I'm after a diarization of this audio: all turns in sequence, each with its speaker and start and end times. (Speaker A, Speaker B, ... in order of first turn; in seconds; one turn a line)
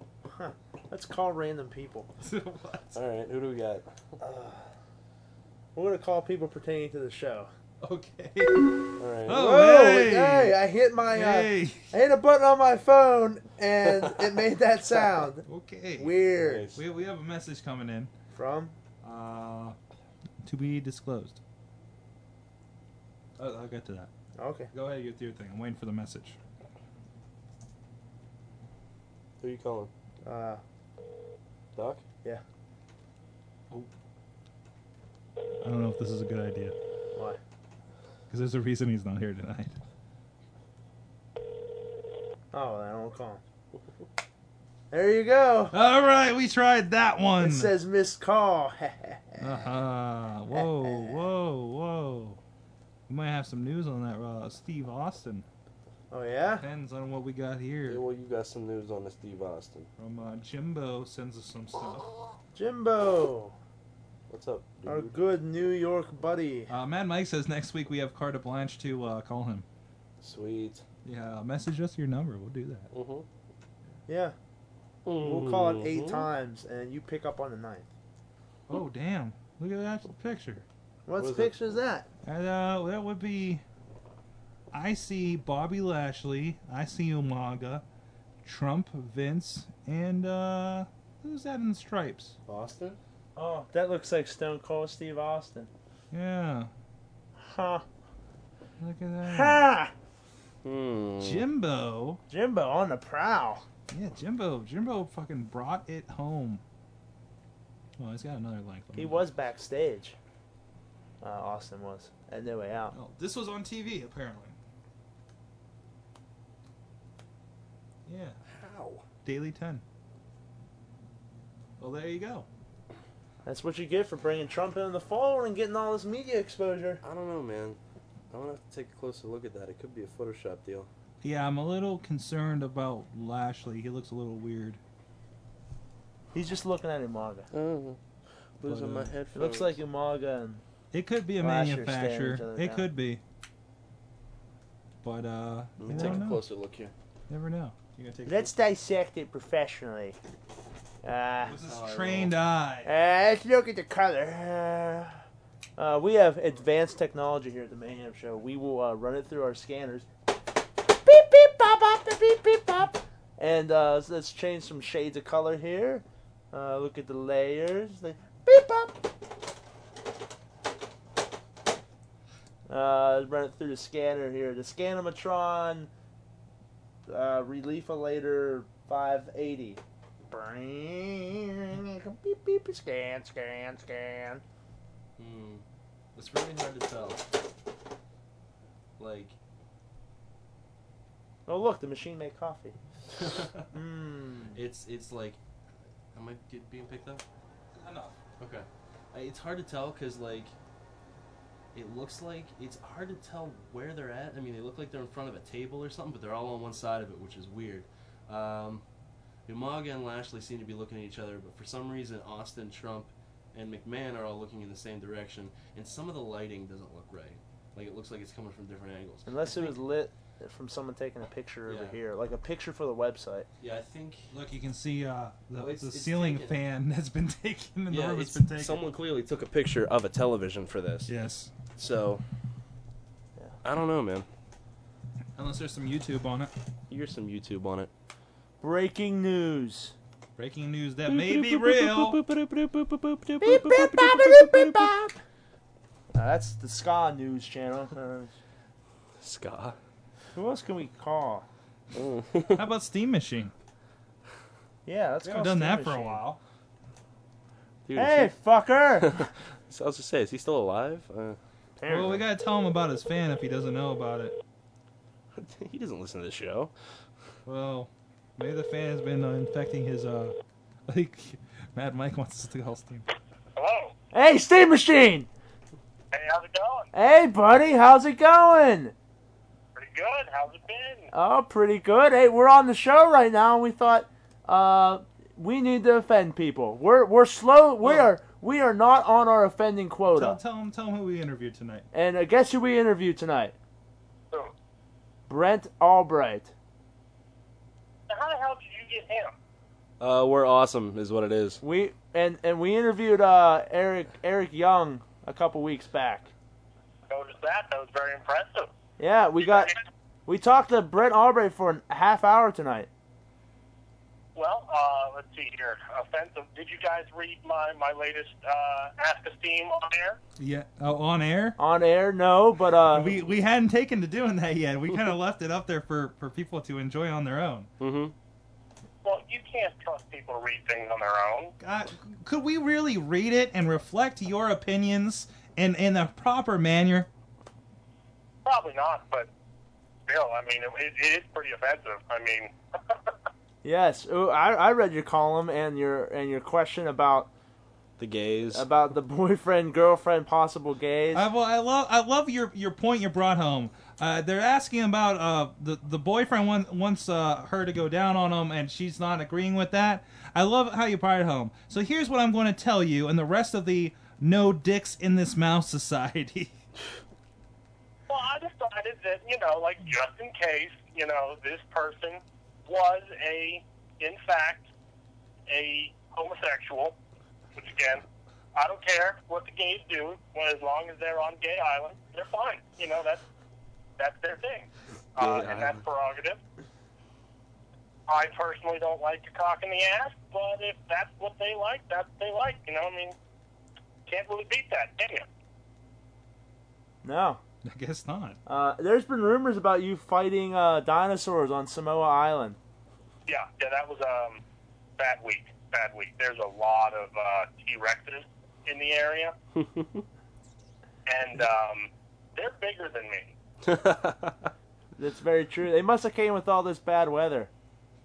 Speaker A: 0.3-2.1
Speaker B: 2.2-3.0
Speaker C: 2.9-3.8
Speaker A: 4.2-4.6
Speaker A: 5.7-7.5
Speaker B: 7.8-8.7
Speaker C: 9.0-9.4
Speaker B: 9.2-11.9
Speaker A: 9.3-15.4
Speaker B: 15.4-16.2
Speaker A: 16.0-16.6
Speaker C: 16.4-16.8
Speaker B: 16.7-18.1
Speaker A: 18.3-18.7
Speaker B: 19.0-19.8
Speaker B: 20.4-21.4
Speaker B: 23.4-24.1
Speaker A: 24.4-24.7
Speaker B: 24.7-26.4
Speaker C: 29.4-29.9
Speaker A: 30.2-30.6
Speaker C: 31.7-32.0
Speaker B: 35.6-36.7
Speaker B: 38.3-39.8
Speaker A: 42.5-43.4
Speaker A: 44.9-45.7
Speaker B: 45.7-47.7
Speaker A: 47.4-49.7
Speaker B: 49.4-52.4
Speaker A: 50.5-51.2
Speaker B: 53.1-55.4
Speaker A: 56.1-56.6
Speaker B: 56.6-58.0
Speaker C: 57.9-59.9
Speaker B: 60.0-62.1
Speaker A: 62.5-63.5
Speaker C: 64.3-65.2
Speaker A: 64.8-66.7
Speaker B: 66.7-69.6
Speaker C: 70.2-70.8
Speaker B: 71.0-72.9
Speaker C: 72.9-73.2
Speaker A: 74.1-74.3
Speaker C: 75.0-76.3
Speaker A: 75.2-77.9
Speaker B: 78.7-80.6
Speaker A: 81.0-82.0
Speaker C: 81.1-81.5
Speaker B: 82.2-83.6
Speaker B: 84.7-87.8
Speaker B: 88.4-92.3
Speaker C: 92.5-93.0
Speaker A: 93.3-95.7
Speaker B: 96.1-96.7
Speaker A: 97.4-97.8
Speaker B: 98.8-99.6
Speaker A: 99.2-99.9
Speaker C: 100.6-101.5
Speaker B: 101.2-102.2
Speaker A: 102.3-103.6
Speaker B: 103.9-106.6
Speaker B: 108.0-109.3
Speaker A: 108.9-110.1
Speaker A: 111.2-112.9
Speaker B: 112.9-114.5
Speaker B: 118.0-118.4
Speaker C: 118.4-119.0
Speaker B: 119.2-119.8
Speaker B: 121.8-122.5
Speaker A: 123.4-127.0
Speaker C: 127.0-127.8
Speaker C: 128.3-130.9
Speaker B: 131.2-134.8
Speaker A: 136.3-137.5
Speaker C: 137.5-138.0
Speaker C: 138.6-139.8
Speaker B: 138.6-139.1
Speaker A: 139.3-140.6
Speaker B: 140.9-143.2
Speaker A: 141.4-142.8
Speaker B: 145.0-146.4
Speaker C: 145.8-146.9
Speaker A: 145.9-146.2
Speaker B: 147.3-148.5
Speaker A: 148.2-150.2
Speaker A: 151.0-151.6
Speaker B: 151.4-152.9
Speaker C: 151.6-152.3
Speaker A: 152.8-155.2
Speaker A: 155.8-160.1
Speaker A: 160.8-169.0
Speaker A: 172.7-175.9
Speaker A: 177.1-184.4
Speaker C: 185.2-185.6
Speaker C: 186.1-187.3
Speaker C: 189.0-189.3
Speaker A: 191.5-192.8
Speaker C: 193.2-193.7
Speaker A: 193.7-194.6
Speaker C: 194.5-195.4
Speaker C: 196.1-197.2
Speaker B: 197.7-198.2
Speaker C: 198.4-200.5
Speaker C: 201.7-208.8
Speaker C: 209.4-219.7
Speaker A: 219.2-223.5
Speaker C: 221.7-222.0
Speaker C: 223.6-224.3
Speaker B: 224.3-228.8
Speaker C: 225.6-226.6
Speaker C: 227.9-231.1
Speaker B: 231.1-231.5
Speaker C: 231.7-232.2
Speaker C: 233.6-234.3
Speaker B: 235.3-236.5
Speaker C: 236.9-237.9
Speaker A: 238.6-239.9
Speaker B: 240.4-242.2
Speaker C: 241.1-244.9
Speaker A: 243.4-245.1
Speaker A: 246.1-248.3
Speaker C: 249.2-249.8
Speaker A: 250.3-251.4
Speaker C: 251.9-252.6
Speaker B: 252.5-253.5
Speaker A: 254.8-256.2
Speaker B: 255.2-256.4
Speaker C: 257.8-258.3
Speaker A: 257.9-259.3
Speaker C: 259.0-261.4
Speaker A: 261.8-262.2
Speaker B: 261.9-264.4
Speaker C: 265.3-266.7
Speaker B: 267.4-270.4
Speaker B: 270.9-273.0
Speaker D: 273.6-273.9
Speaker A: 274.1-275.3
Speaker D: 276.1-276.9
Speaker A: 276.9-278.9
Speaker D: 279.8-281.1
Speaker A: 281.1-290.4
Speaker B: 290.1-291.9
Speaker A: 291.9-293.5
Speaker A: 295.3-296.5
Speaker D: 298.1-299.3
Speaker C: 300.0-301.6
Speaker A: 301.6-306.3
Speaker D: 307.1-308.7
Speaker A: 309.0-309.7
Speaker A: 310.3-312.9
Speaker D: 314.3-320.2
Speaker B: 320.4-321.6
Speaker A: 321.6-323.1
Speaker B: 322.9-327.7
Speaker C: 327.8-328.1
Speaker D: 329.0-331.5
Speaker B: 331.6-337.1
Speaker D: 338.4-339.3
Speaker D: 340.1-342.5
Speaker A: 343.6-347.3
Speaker C: 348.0-348.6
Speaker A: 348.5-351.2
Speaker B: 351.1-366.5
Speaker D: 368.1-374.7
Speaker D: 375.5-376.9
Speaker D: 377.5-378.0
Speaker D: 378.5-383.2
Speaker D: 384.0-386.4
Speaker C: 385.2-385.8
Speaker D: 388.1-393.1
Speaker D: 394.1-395.2
Speaker A: 397.0-397.4
Speaker B: 397.6-398.4
Speaker A: 398.4-402.6
Speaker D: 403.3-404.4
Speaker D: 405.0-409.3
Speaker C: 409.6-410.0
Speaker D: 411.1-413.3
Speaker C: 413.6-414.5
Speaker A: 415.0-417.5